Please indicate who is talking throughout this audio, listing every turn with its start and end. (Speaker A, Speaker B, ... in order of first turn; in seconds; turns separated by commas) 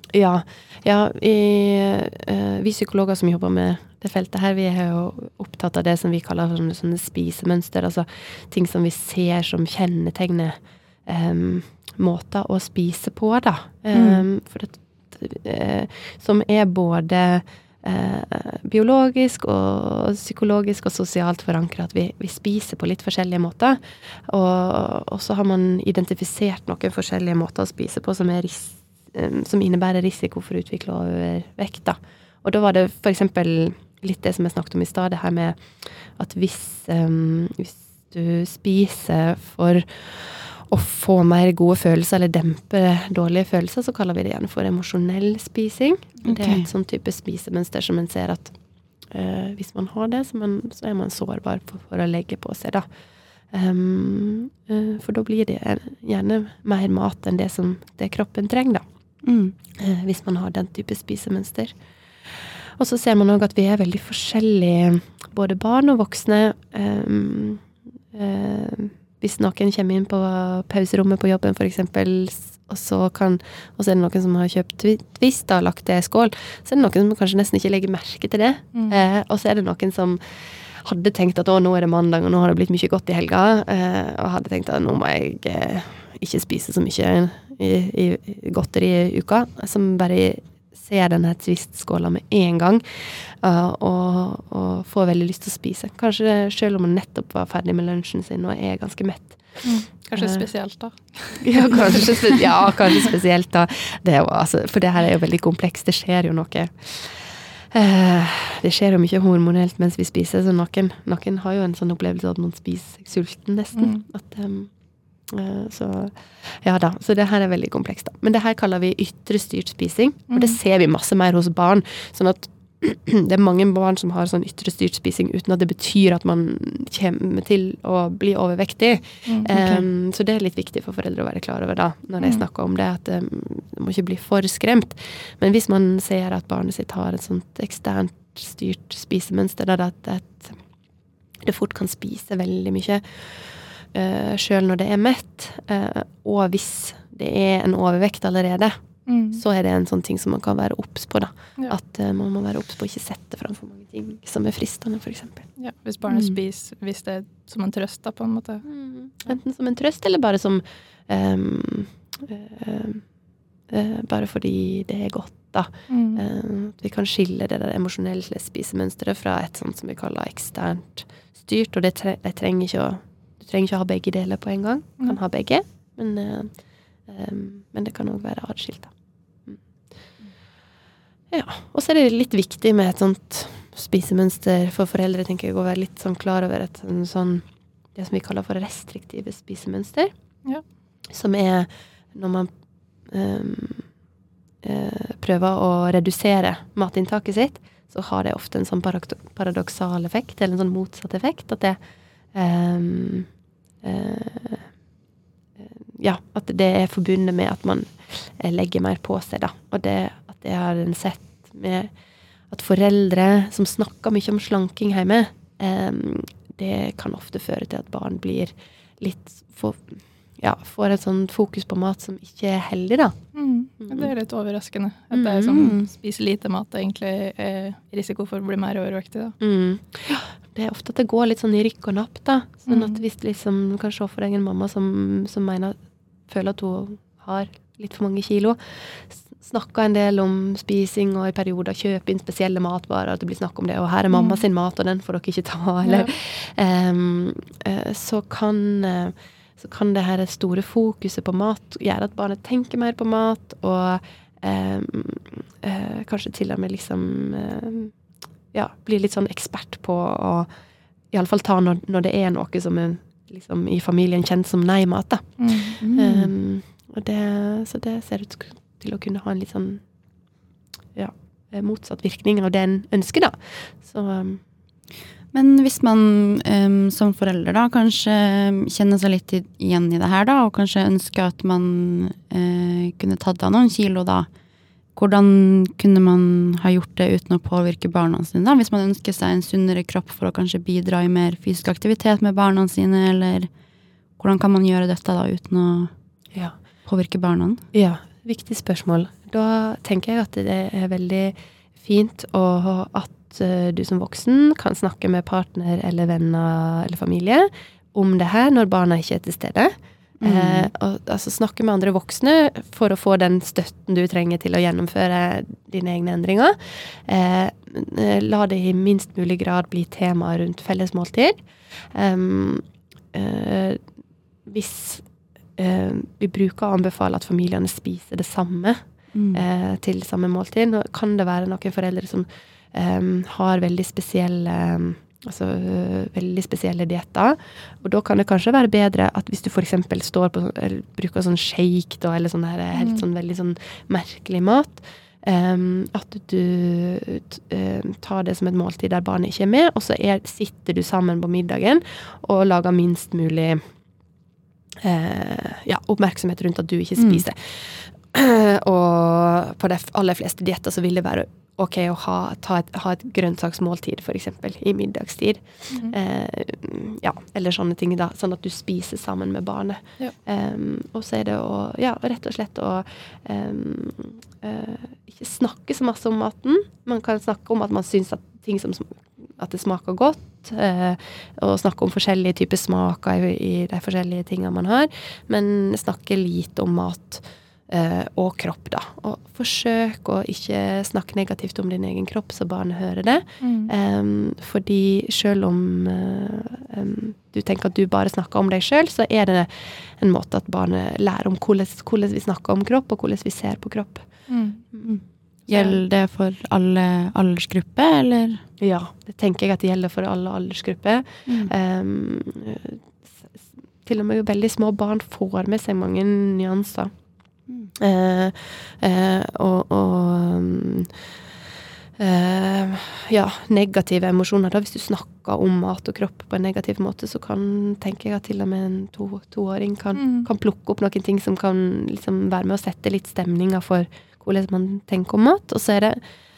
Speaker A: 0.1-48.6, Speaker B: 13.9-14.2, Speaker B: 46.2-46.7, Speaker A: 49.1-52.9, Speaker A: 53.5-58.8, Speaker B: 59.2-59.5, Speaker A: 59.8-61.8, Speaker A: 62.3-100.5, Speaker C: 78.7-79.0, Speaker C: 99.6-102.4, Speaker A: 101.3-114.7, Speaker C: 113.8-114.0, Speaker A: 115.3-140.6, Speaker C: 120.3-120.6, Speaker B: 129.5-129.8, Speaker A: 141.4-155.5, Speaker C: 149.1-149.4, Speaker C: 155.6-158.7, Speaker B: 156.1-156.4, Speaker A: 158.7-163.1, Speaker A: 163.7-176.5, Speaker C: 165.9-166.2, Speaker A: 177.1-178.9, Speaker A: 181.3-190.1, Speaker A: 191.1-192.5, Speaker A: 193.1-193.9, Speaker A: 194.6-201.8, Speaker A: 202.3-203.3, Speaker A: 203.8-204.7, Speaker A: 205.6-211.9, Speaker A: 212.5-223.2, Speaker C: 223.3-229.4, Speaker A: 223.8-224.1, Speaker A: 225.1-225.6, Speaker B: 225.5-225.9, Speaker A: 229.4-257.9, Speaker C: 232.7-233.0, Speaker B: 244.1-244.4, Speaker C: 245.8-246.1, Speaker A: 258.5-260.5, Speaker A: 261.1-269.8, Speaker C: 265.4-265.8, Speaker B: 265.8-266.3, Speaker A: 270.9-274.4, Speaker B: 275.3-284.3, Speaker B: 284.9-293.5, Speaker B: 294.2-295.9, Speaker B: 296.9-297.6, Speaker A: 297.7-323.8, Speaker B: 310.2-310.7, Speaker A: 324.4-353.6, Speaker B: 329.1-329.4, Speaker C: 342.8-343.0, Speaker A: 354.8-404.9, Speaker B: 357.0-357.2, Speaker C: 393.4-393.7, Speaker C: 404.3-404.6, Speaker B: 404.8-408.4, Speaker A: 408.6-416.9, Speaker B: 411.3-411.5, Speaker A: 417.8-421.0, Speaker A: 422.0-436.0, Speaker C: 429.9-430.3